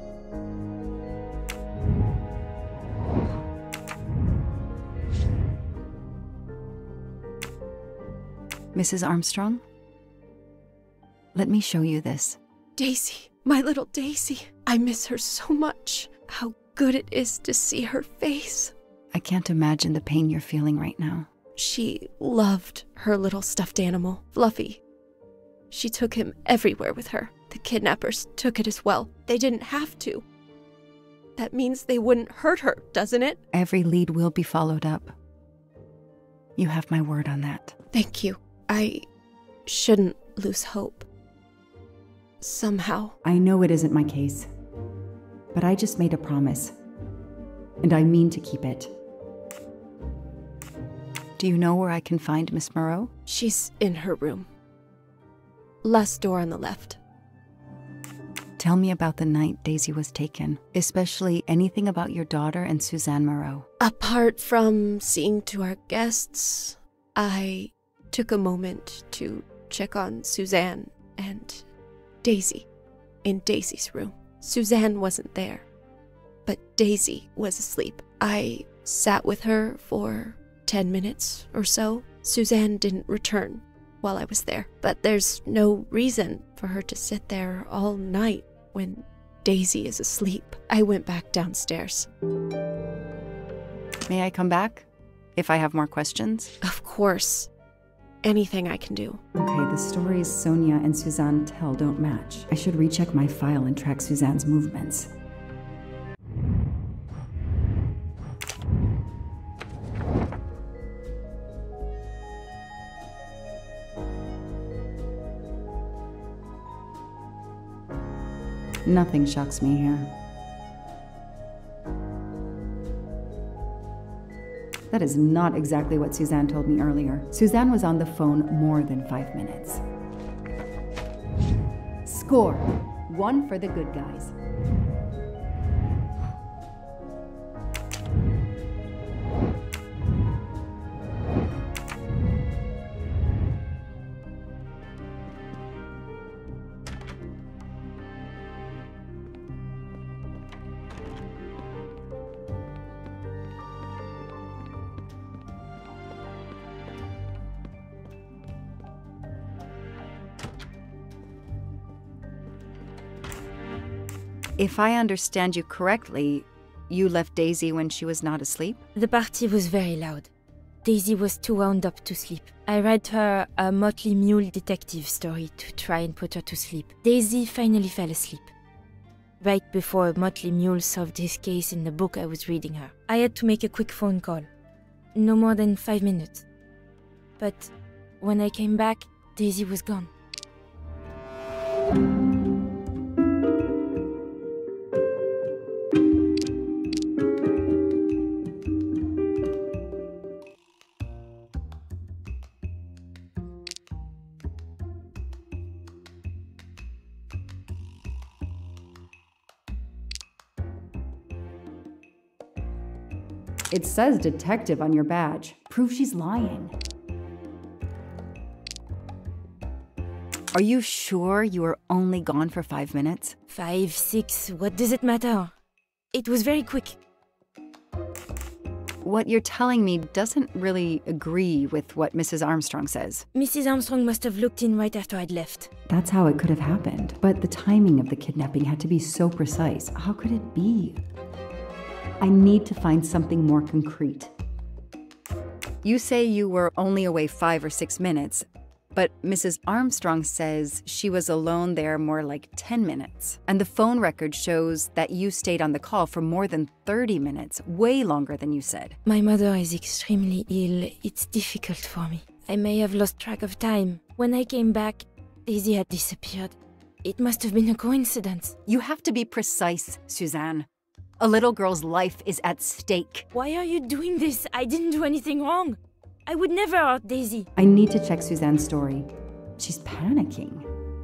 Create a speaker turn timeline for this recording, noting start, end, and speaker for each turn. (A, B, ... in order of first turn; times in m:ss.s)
0:08.7-0:09.6 A
0:11.4-0:12.4 A
0:12.8-0:18.7 B
0:19.1-0:21.3 A
0:21.6-0:24.8 B
0:25.7-0:30.2 B
0:31.4-0:33.4 B
0:33.5-0:35.1 A
0:36.6-0:37.8 A
0:37.9-0:39.1 B
0:39.7-0:41.1 B
0:42.4-0:43.2 B
0:43.2-0:44.5 A
0:45.5-0:46.8 A
0:47.8-0:48.9 A
0:51.4-0:53.1 A
0:53.3-0:54.5 B
0:55.8-0:57.0 B
0:58.6-1:03.7 A
1:03.8-1:11.7 B
1:12.2-1:12.7 B
1:13.2-1:15.7 B
1:16.5-1:32.1 B
1:34.1-1:36.5 A
1:36.6-1:37.5 B
1:38.2-1:39.2 B
1:39.4-1:45.1 A
1:58.8-2:00.1 A
2:04.9-2:09.8 A
2:12.0-2:14.3 A
2:44.6-2:48.8 A
2:49.0-2:50.3 C
2:50.8-2:58.5 C
2:59.4-3:04.5 C
3:05.2-3:06.4 C
3:07.4-3:10.1 C
3:33.7-3:36.8 A
3:40.5-3:43.4 A
3:43.5-3:45.5 C
3:46.1-3:47.0 C
3:49.0-3:53.3 A
3:53.3-3:55.7 C
3:55.9-4:01.0 A
4:02.2-4:04.3 A
4:05.8-4:19.0 A
4:19.0-4:28.6 C
4:28.7-4:30.7 A
4:31.2-4:33.3 A
4:33.3-4:37.5 C
4:37.6-4:40.7 A